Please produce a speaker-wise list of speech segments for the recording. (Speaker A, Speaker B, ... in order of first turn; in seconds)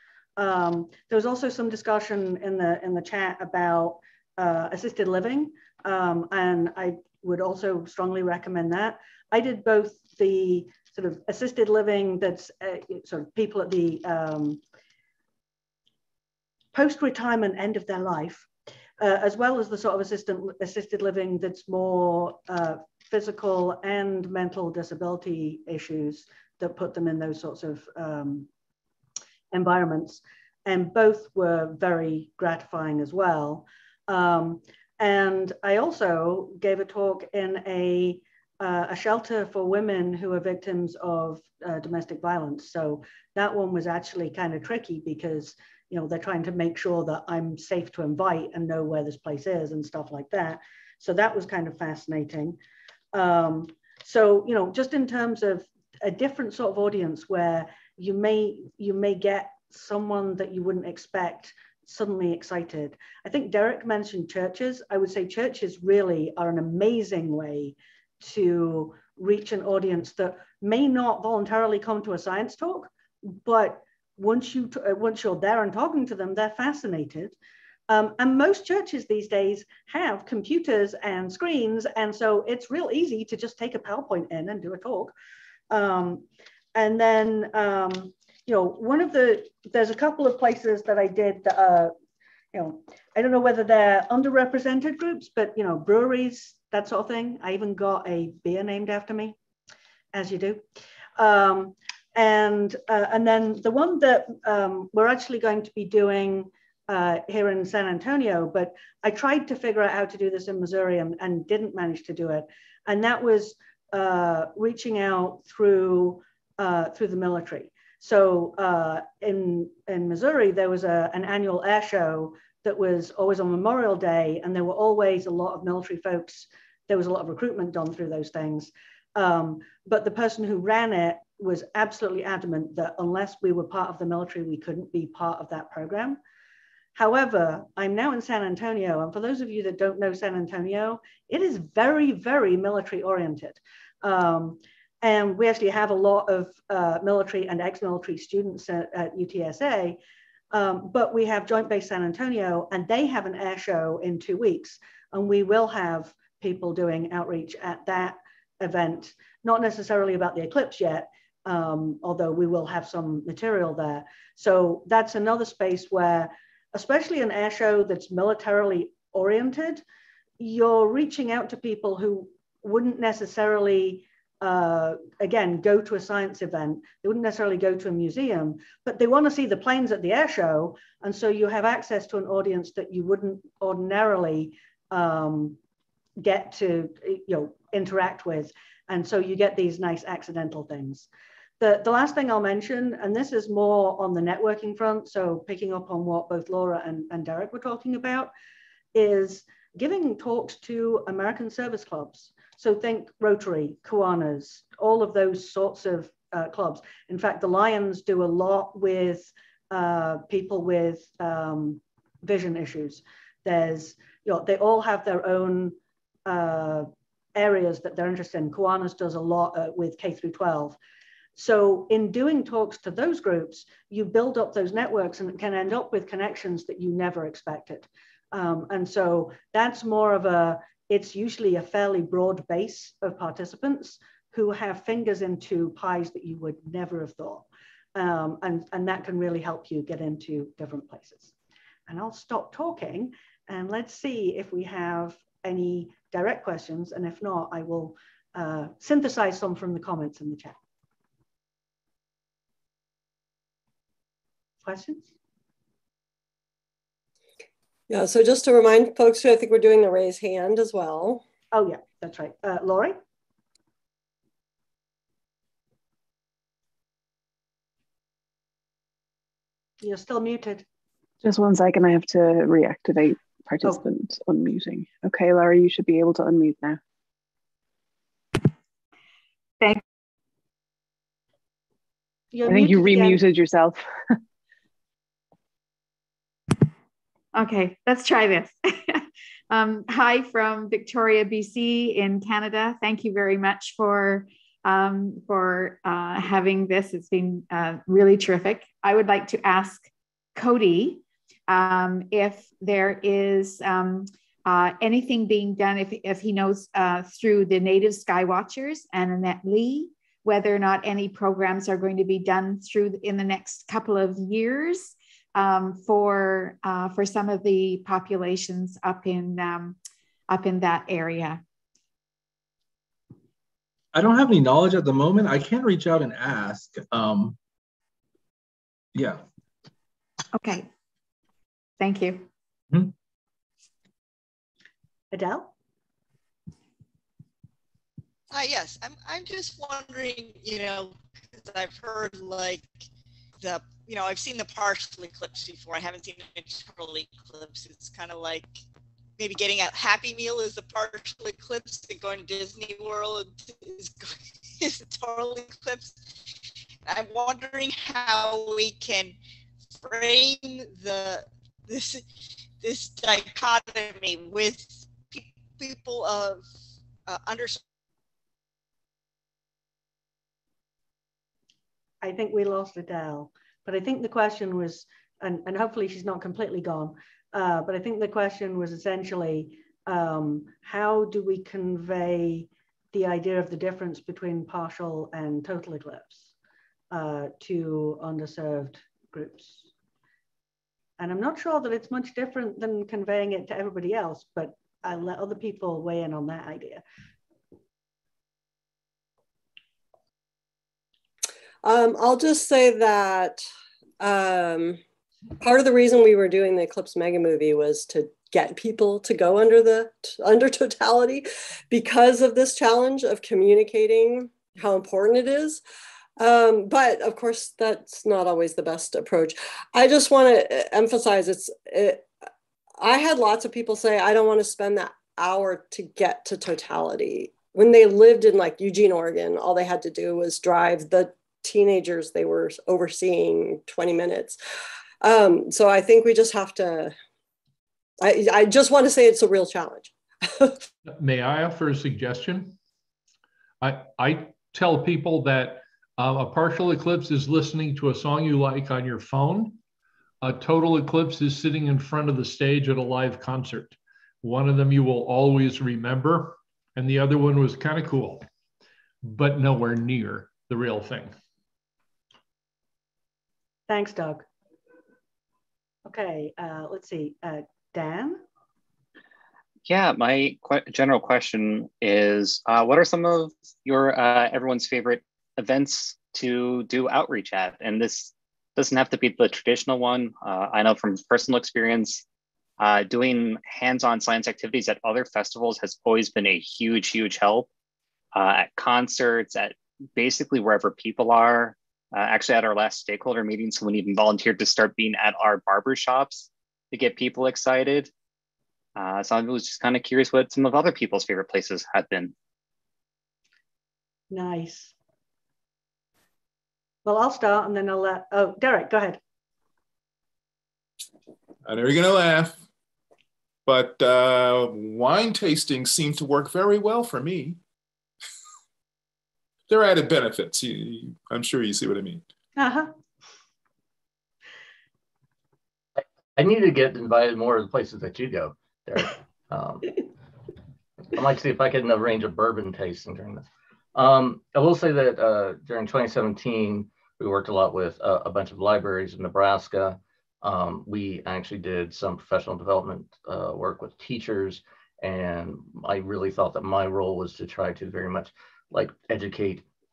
Speaker A: 0.4-14.6, 16.7-18.5, 19.0-28.5, 29.5-52.6, 53.1-77.3, 77.9-85.1, 85.7-91.9, 92.5-99.4, 100.1-100.6, 101.2-136.2, 136.9-150.0, 150.5-169.8, 170.4-185.6, 186.2-191.1, 191.6-198.3, 198.9-215.8, 216.3-220.8, 221.4-241.3, 241.9-250.6, 254.6-255.1, 261.5-263.0, 269.8-270.6, 282.3-283.2, 335.1-335.5, 372.0-386.3, 386.9-389.7, 391.0-396.8, 463.7-464.2, 465.9-468.2, 504.1-504.7, 506.9-509.0, 522.4-522.7
Speaker B: 257.9-261.2, 401.6-403.4, 404.0-404.8, 405.4-415.6, 416.2-422.1, 422.8-434.4, 435.0-436.9, 438.0-440.6
Speaker C: 271.2-276.8, 282.4-283.8
Speaker D: 287.3-319.8, 320.3-321.4, 330.3-330.7, 331.8-332.3
Speaker E: 323.9-327.4, 328.9-329.2
Speaker F: 338.3-342.7, 343.4-348.5, 349.2-356.0, 356.9-359.2, 359.8-362.1, 362.6-366.4, 367.1-367.6
Speaker G: 440.9-442.6, 443.6-449.6, 450.2-458.3, 459.0-461.2
Speaker H: 469.6-482.0, 482.6-487.5, 488.1-497.9, 498.8-502.1
Speaker I: 511.4-512.4, 513.5-517.4, 519.5-522.0
Speaker J: 525.8-529.9, 530.9-549.4